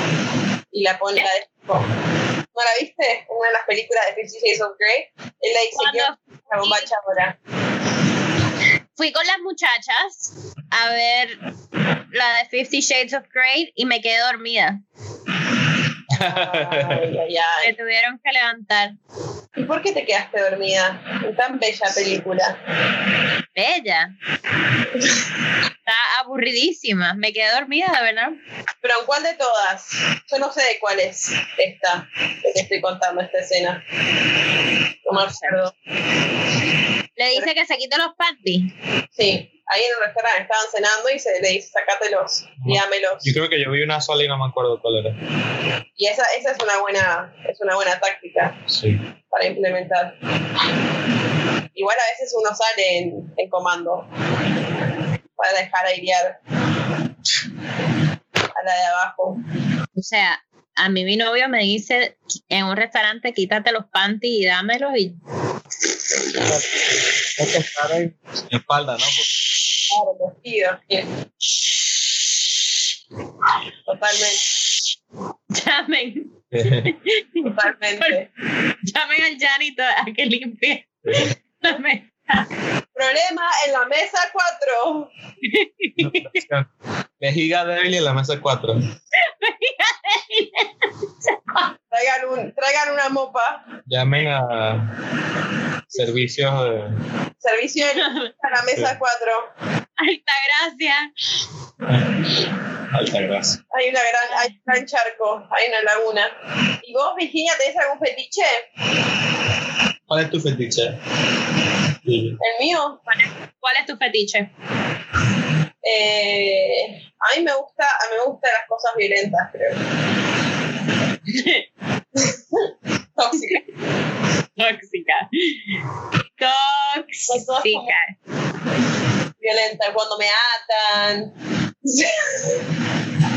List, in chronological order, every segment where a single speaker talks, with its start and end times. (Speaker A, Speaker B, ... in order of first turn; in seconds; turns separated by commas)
Speaker A: 0.7-1.9, Speaker A: 2.5-7.3, Speaker B: 5.7-6.9, Speaker B: 9.0-11.4, Speaker B: 12.1-14.8, Speaker C: 16.1-17.1, Speaker A: 16.1-17.7, Speaker B: 17.6-18.9, Speaker A: 19.6-22.6, Speaker B: 23.5-24.1, Speaker B: 25.9-28.4, Speaker A: 28.8-33.8, Speaker A: 35.0-35.7, Speaker B: 35.1-35.6, Speaker B: 37.2-38.7, Speaker A: 39.1-43.3, Speaker C: 42.6-45.1, Speaker A: 46.0-48.6, Speaker C: 48.7-49.0, Speaker A: 49.3-50.1, Speaker A: 51.7-54.1, Speaker A: 55.4-56.4, Speaker A: 58.5-59.4, Speaker B: 60.0-65.2, Speaker C: 66.4-66.8, Speaker C: 67.3-69.3, Speaker A: 69.9-71.1, Speaker A: 73.8-74.4, Speaker B: 75.5-78.1, Speaker C: 76.5-76.9, Speaker A: 77.4-78.3, Speaker B: 78.8-82.5, Speaker C: 81.0-81.3, Speaker A: 82.9-85.1, Speaker B: 85.4-86.4, Speaker C: 86.0-86.7, Speaker C: 87.2-88.8, Speaker B: 89.1-90.7, Speaker B: 91.2-91.7, Speaker A: 91.9-93.6, Speaker C: 93.9-94.9, Speaker C: 95.9-97.0, Speaker A: 97.4-99.5, Speaker B: 98.0-98.3, Speaker B: 100.0-101.1, Speaker C: 101.9-102.2, Speaker C: 102.9-103.6, Speaker A: 103.7-108.7, Speaker C: 110.1-111.0, Speaker C: 112.0-112.4, Speaker A: 112.4-113.0, Speaker B: 113.6-114.5, Speaker A: 115.8-119.8, Speaker B: 121.3-121.6, Speaker A: 122.2-123.7, Speaker B: 124.6-125.6, Speaker B: 126.4-128.1, Speaker A: 127.3-127.9, Speaker A: 129.4-131.3, Speaker A: 131.8-132.6